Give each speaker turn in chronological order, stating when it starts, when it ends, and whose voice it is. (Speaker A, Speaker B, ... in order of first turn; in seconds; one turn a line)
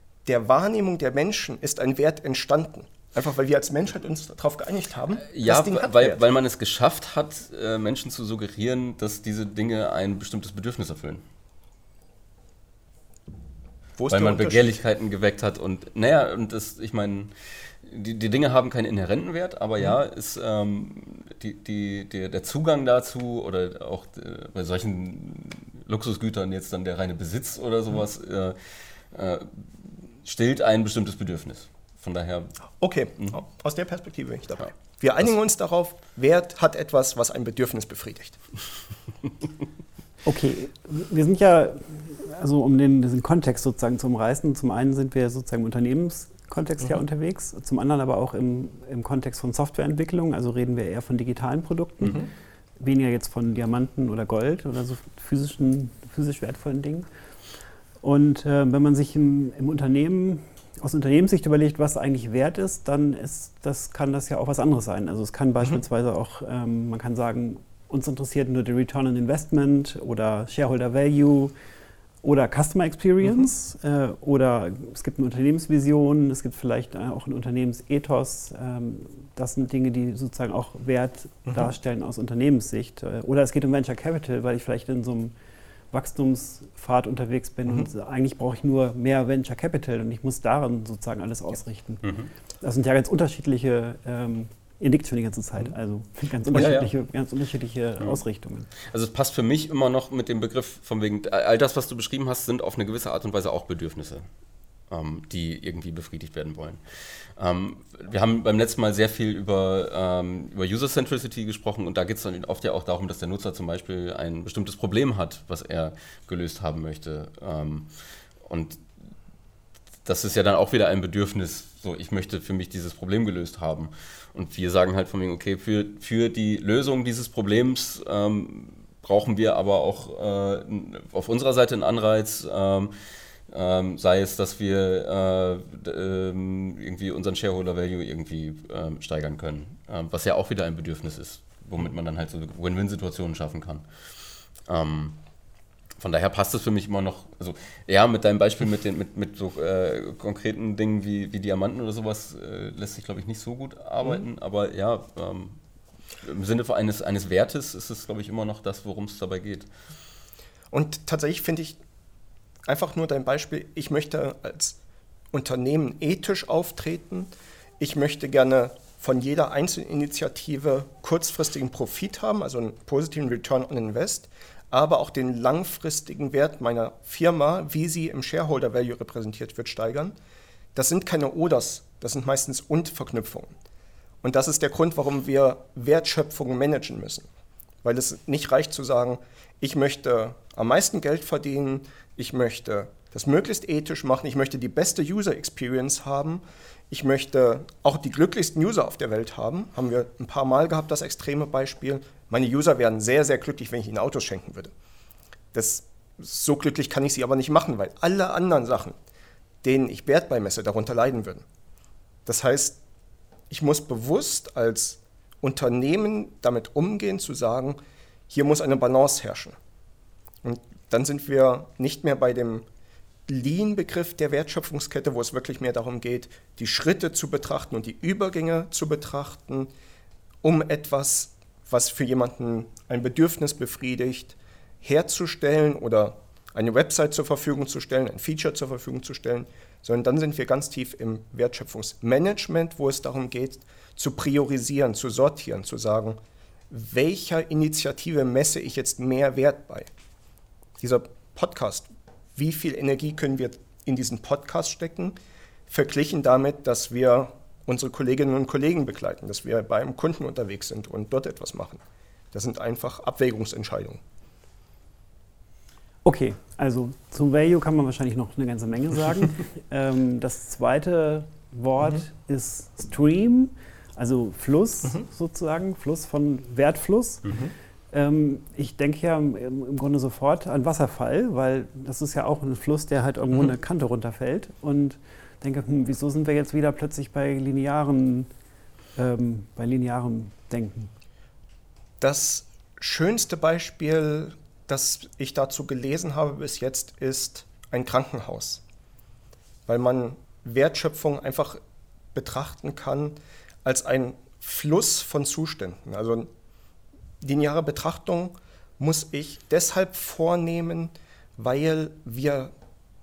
Speaker A: 0.2-6.2
Speaker B: 5.3-11.2
Speaker A: 14.0-14.8
Speaker B: 14.1-28.6
Speaker B: 29.1-32.5
Speaker A: 32.8-38.4
Speaker C: 40.2-52.2
Speaker C: 52.8-57.0
Speaker C: 58.0-71.5
Speaker C: 72.2-85.3
Speaker A: 81.5-81.7
Speaker C: 85.9-92.0
Speaker B: 92.0-92.3
Speaker C: 92.6-98.7
Speaker B: 96.5-96.9
Speaker B: 98.8-104.3
Speaker B: 104.9-106.8
Speaker B: 107.4-117.9
Speaker B: 118.5-118.8
Speaker B: 120.0-132.9
Speaker B: 133.5-143.8
Speaker B: 144.7-145.2
Speaker B: 146.0-155.6
Speaker B: 156.2-159.7
Speaker A: 160.7-161.8
Speaker A: 162.7-164.8
Speaker A: 165.3-180.1
Speaker A: 180.8-183.5
Speaker A: 184.2-187.3
Speaker A: 187.8-204.7
Speaker A: 205.5-208.9
Speaker A: 209.6-211.4
Speaker A: 212.2-212.8
Speaker A: 213.5-217.8
Speaker A: 218.3-219.6
Speaker A: 220.4-222.6
Speaker A: 223.3-229.7
Speaker A: 230.4-246.2
Speaker A: 246.7-249.9
Speaker A: 250.8-255.2
Speaker A: 255.7-261.8
Speaker A: 262.3-264.0
Speaker C: 266.0-277.2
Speaker C: 277.9-288.3
Speaker C: 288.9-290.9
Speaker A: 292.0-298.6
Speaker A: 299.7-301.6
Speaker A: 302.1-306.3
Speaker A: 307.2-312.5